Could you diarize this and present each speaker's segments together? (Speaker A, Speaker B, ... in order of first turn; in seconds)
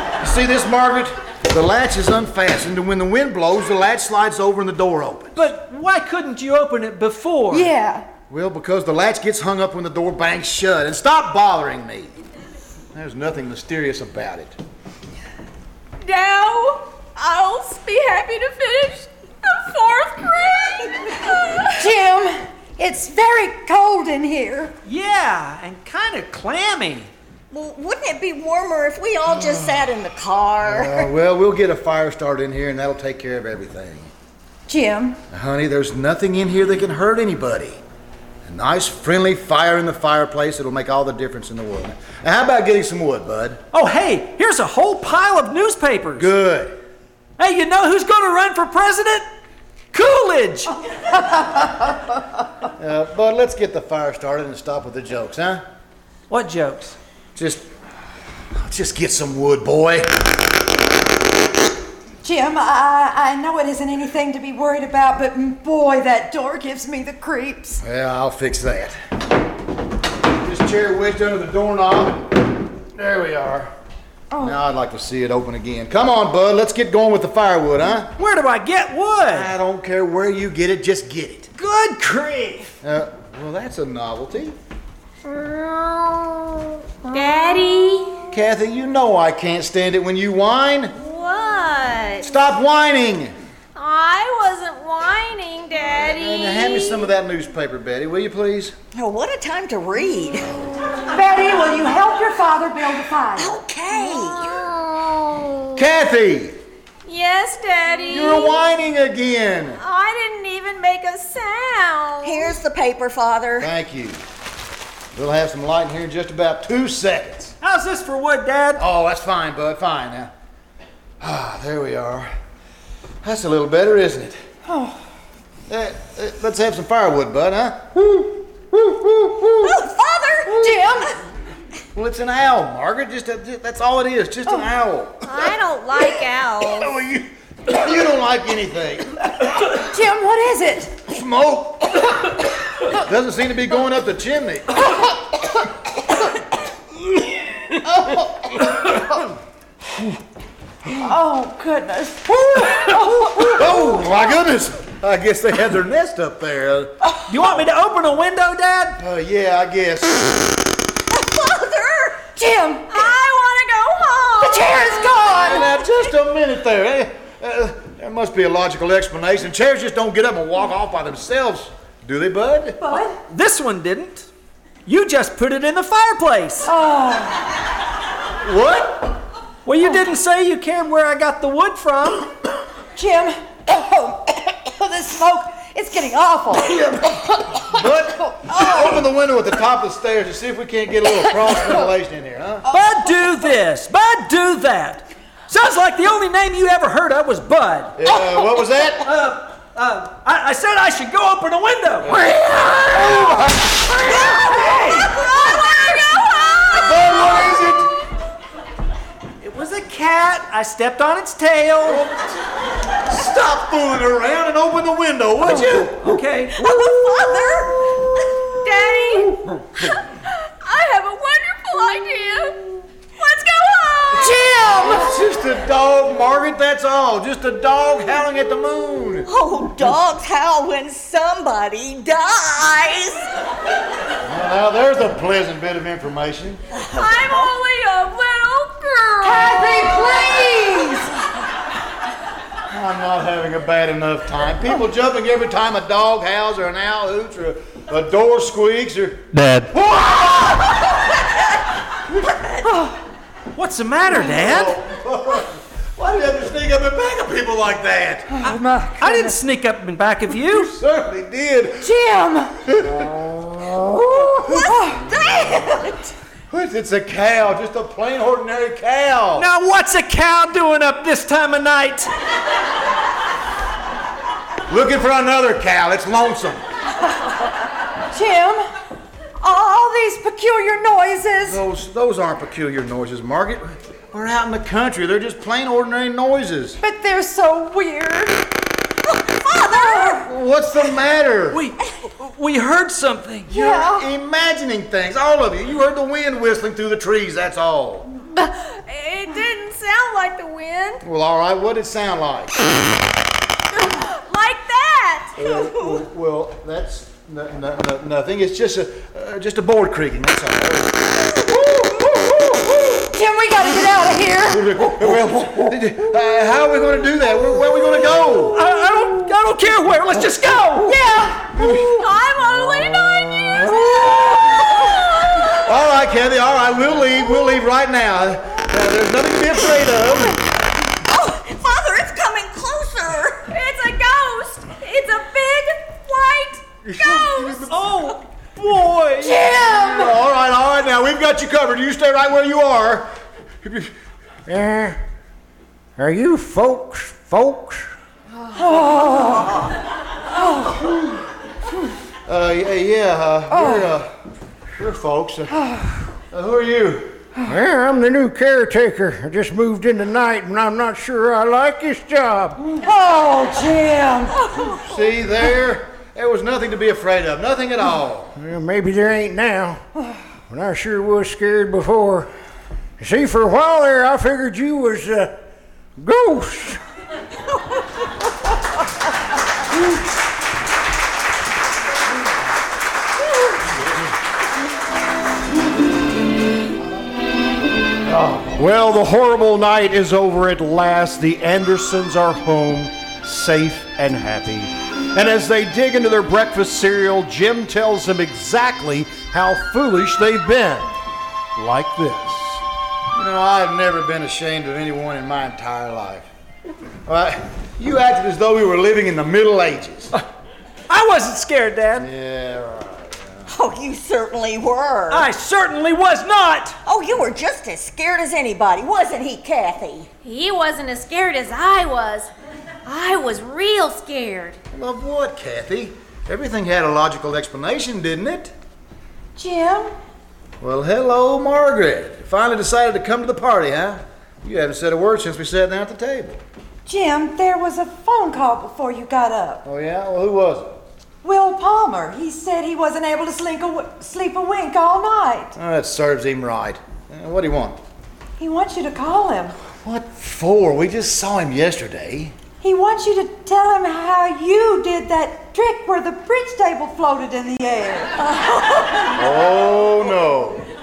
Speaker A: 0.2-5.4, 8.3-12.1, 12.9-14.6, 29.3-29.9, 30.6-34.1, 35.3-37.8, 38.5-43.6, 46.2-46.8, 52.8-55.6, 57.4-57.6, 58.6-60.1, 67.8-69.0, 70.4-72.3, 73.0-73.7, 74.4-78.1, 79.3-81.5, 82.8-84.6, 88.3-91.0, 92.2-93.3, 96.0-98.7, 105.8-106.6, 108.1-109.8, 113.6-114.2, 115.2-117.5, 118.8-120.3, 121.2-122.3, 123.2-124.3, 125.7-127.9, 131.9-135.5, 136.6-139.3, 141.1-142.2, 142.9-144.7, 153.3-156.9, 159.0-160.5, 165.3-172.8, 178.4-179.2, 187.6-192.7, 198.0-199.1, 202.9-203.7, 206.7-207.9, 211.9-212.3, 213.1-216.0, 224.8-229.3, 234.3-236.6, 242.7-250.8, 252.1-252.6, 254.2-258.3, 260.5-261.9, 262.7-263.3, 266.5-269.5, 274.7-276.6, 281.4-286.8, 290.2-291.6, 293.5-298.1, 301.0-302.6, 305.4-312.6, 314.5-318.6, 321.6-321.8, 325.6-330.4, 339.6-343.1, 343.6-343.9, 352.3-354.1, 354.8-355.5, 356.3-357.2, 364.8-368.3, 388.1-388.4, 403.1-406.3, 407.1-410.1, 412.0-413.5, 424.7-428.5, 430.6-436.4, 439.6-440.8, 445.6-447.8, 449.8-452.4, 459.1-460.6
Speaker B: 5.3-7.7, 24.9-27.1, 43.7-46.3, 47.4-49.3, 49.9-50.8, 56.3-57.0, 78.2-79.5, 81.6-82.7, 117.6-118.8, 157.3-159.0, 173.3-174.3, 174.9-176.7, 179.7-182.3, 192.7-198.0, 199.0-202.2, 204.5-205.1, 209.4-212.1, 215.4-216.7, 253.5-254.8, 259.0-260.7, 269.4-272.1, 291.5-293.5, 318.5-321.0, 337.7-339.4, 410.9-412.1, 415.1-416.8
Speaker C: 7.5-8.1, 21.8-24.7, 34.7-35.2, 62.2-67.8, 74.3-74.6, 101.1-103.5, 124.7-125.0, 130.5-131.1, 139.8-140.9, 150.9-153.7, 162.4-163.1, 164.4-165.7, 172.8-173.2, 176.7-177.5, 183.0-187.6, 188.2-188.9, 224.1-225.2, 239.2-241.1, 252.7-253.0, 258.3-259.4, 261.8-262.6, 264.1-265.0, 278.1-278.6, 279.4-281.6, 286.8-288.4, 289.6-290.2, 293.5-294.1, 313.1-314.8, 320.9-321.8, 339.2-340.1, 348.6-349.7, 353.5-353.9, 362.6-364.4, 429.4-429.9, 436.9-439.6, 441.2-445.6, 448.4-449.6, 452.6-458.3
Speaker D: 16.0-21.9, 85.2-88.2, 91.0-92.3, 93.8-97.1, 103.9-105.8, 107.1-108.7, 109.8-112.5, 135.3-137.0, 162.9-165.1, 205.2-207.3, 218.6-224.8, 236.9-240.5, 298.2-301.0, 303.8-305.4, 321.6-325.7, 333.5-337.7, 420.2-422.3, 422.9-424.6
Speaker E: 27.5-31.1, 99.0-100.5, 103.4-104.6, 112.2-113.7, 129.6-130.8, 161.1-162.2, 204.1-206.9, 216.5-218.1, 229.3-233.3, 236.7-237.5, 264.4-266.1, 289.1-290.2, 305.4-306.0, 331.1-333.4, 364.4-365.0, 413.5-415.3, 416.9-420.1
Speaker F: 249.4-249.7, 344.5-345.0, 346.0-347.9, 357.4-362.6, 368.4-369.8, 370.5-372.3, 373.0-375.4, 376.0-376.8
Speaker G: 388.5-400.9, 401.6-402.6